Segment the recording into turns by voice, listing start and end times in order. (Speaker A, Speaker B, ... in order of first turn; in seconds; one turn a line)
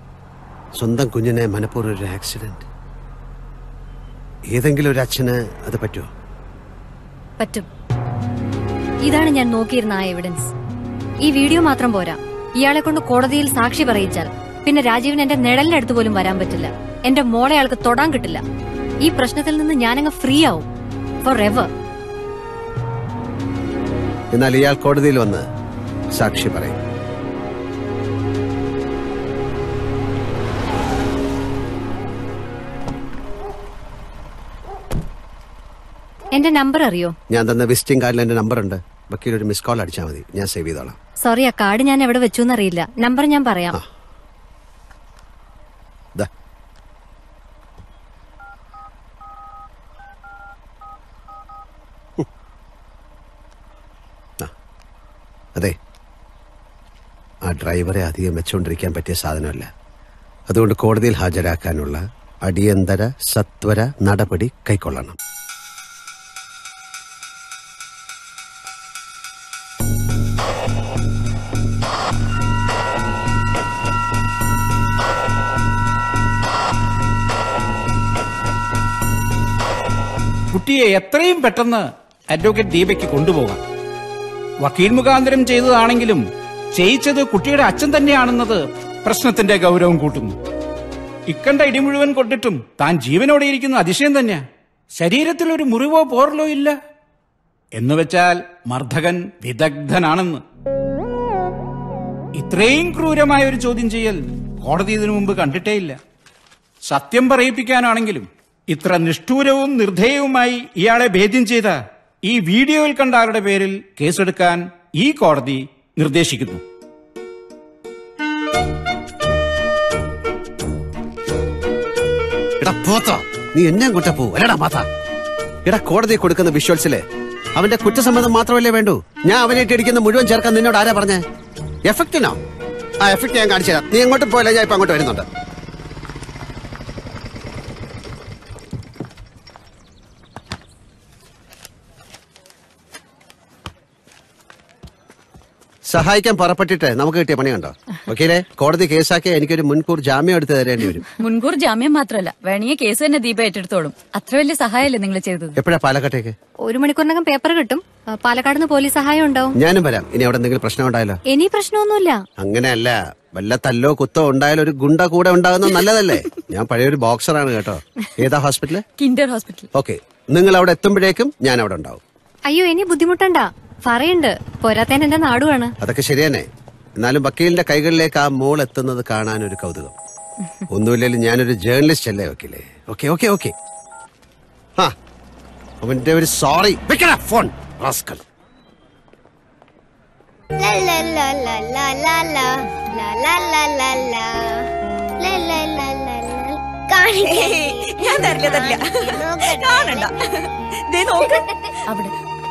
Speaker A: 0.8-2.7
Speaker A: 4.5-6.1
Speaker B: 7.4-7.7
Speaker B: 9.0-10.5
Speaker B: 11.2-18.4
Speaker B: 19.0-20.7
Speaker B: 21.2-21.7
Speaker A: 24.3-25.5
Speaker A: 26.1-26.8
Speaker B: 36.3-37.1
Speaker A: 37.3-41.0
Speaker B: 41.2-43.8
Speaker A: 57.5-59.7
Speaker A: 60.5-65.2
Speaker C: 80.5-83.6
Speaker C: 84.6-86.2
Speaker C: 86.7-90.3
Speaker C: 91.3-96.8
Speaker C: 97.8-100.4
Speaker C: 102.4-106.0
Speaker C: 106.9-116.6
Speaker A: 122.6-124.9
Speaker A: 125.7-127.0
Speaker A: 127.6-131.2
Speaker A: 131.9-132.4
Speaker A: 133.0-135.3
Speaker A: 145.9-151.0
Speaker D: 151.2-155.6
Speaker A: 155.6-156.3
Speaker B: 156.7-159.6
Speaker A: 159.6-161.2
Speaker B: 161.3-162.2
Speaker A: 162.4-168.8
Speaker D: 169.0-169.7
Speaker A: 169.7-172.0
Speaker B: 172.5-175.7
Speaker A: 175.8-176.5
Speaker A: 177.0-179.9
Speaker A: 180.7-183.5
Speaker A: 185.8-188.2
Speaker E: 190.6-194.7
Speaker E: 195.2-200.1
Speaker E: 201.1-201.4
Speaker D: 201.9-202.1